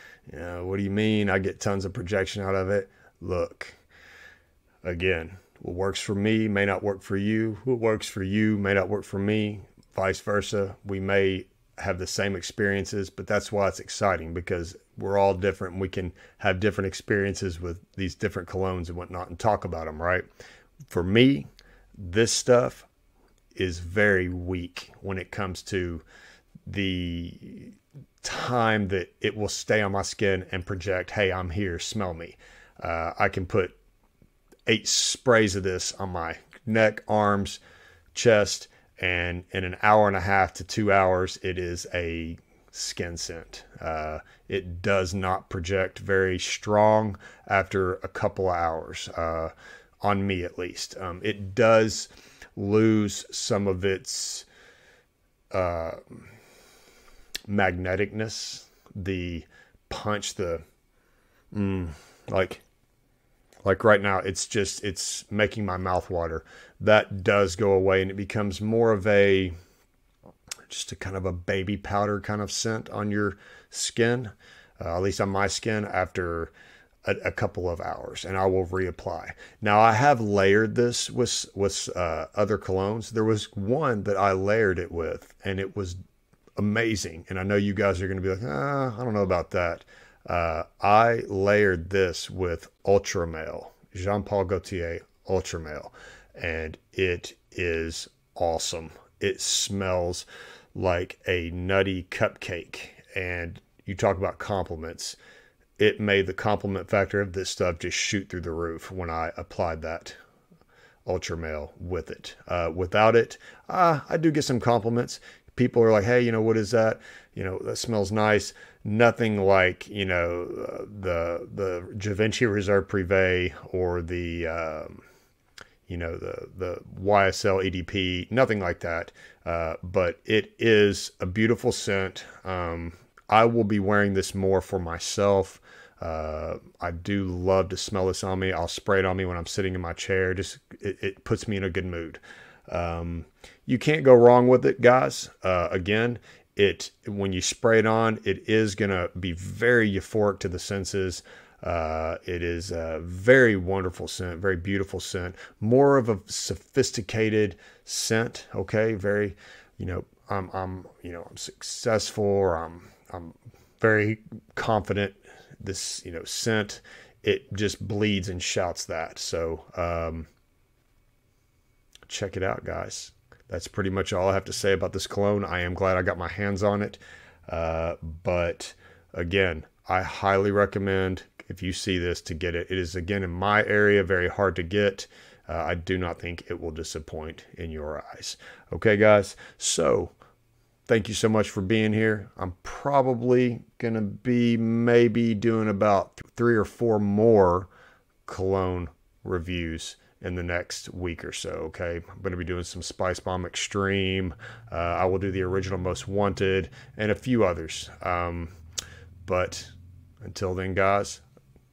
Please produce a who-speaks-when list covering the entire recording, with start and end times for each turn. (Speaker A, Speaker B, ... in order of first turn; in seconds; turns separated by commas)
Speaker A: 0.3-3.8, Speaker A: 4.8-20.3, Speaker A: 20.9-22.9, Speaker A: 23.5-26.1, Speaker A: 26.7-33.8, Speaker A: 34.7-37.6, Speaker A: 38.1-54.5, Speaker A: 55.5-56.3, Speaker A: 57.5-60.6, Speaker A: 61.5-62.6, Speaker A: 63.6-69.5, Speaker A: 70.7-76.5, Speaker A: 77.0-86.0, Speaker A: 86.6-105.2, Speaker A: 105.8-110.2, Speaker A: 111.1-125.0, Speaker A: 125.9-170.3, Speaker A: 172.1-190.1, Speaker A: 190.9-197.7, Speaker A: 198.3-208.5, Speaker A: 209.2-211.2